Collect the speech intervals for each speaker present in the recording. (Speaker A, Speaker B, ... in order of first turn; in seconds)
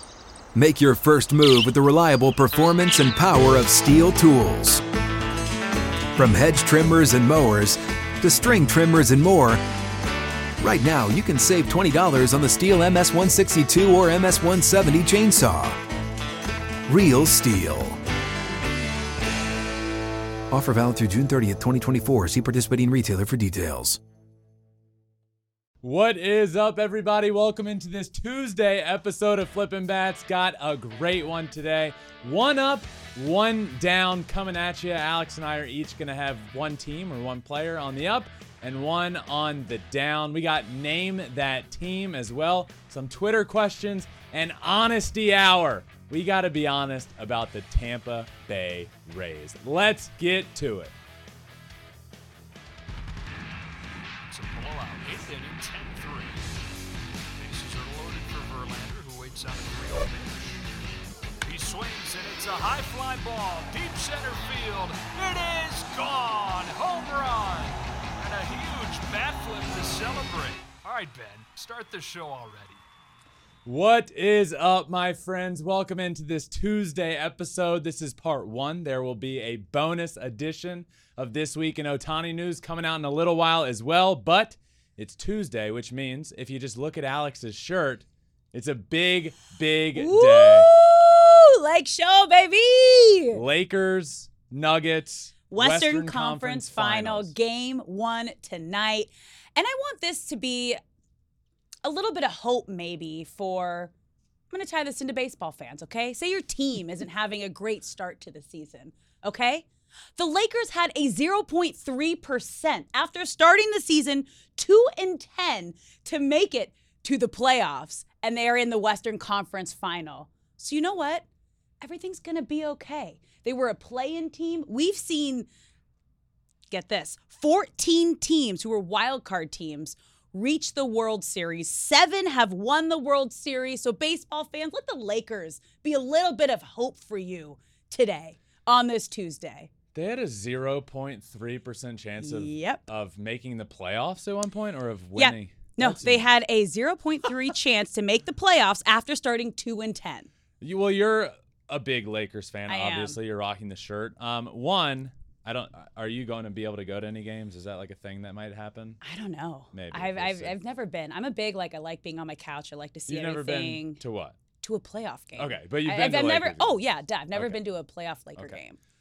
Speaker A: 0.5-4.8, 6.2-9.6, 10.6-15.8, 16.9-18.0, 20.5-24.0
Speaker B: 25.8-50.9, 73.6-90.7, 93.3-97.3, 139.9-146.3, 150.6-159.0, 159.7-160.5, 163.1-164.4, 165.4-166.8
Speaker C: 54.3-56.5, 57.4-60.7, 61.4-72.8
Speaker D: 89.9-93.4, 95.5-100.8, 101.8-103.9, 104.5-121.2, 121.8-125.5, 126.7-139.7, 142.2-142.8, 145.2-150.3, 152.7-153.2, 159.0-164.0, 164.6-168.8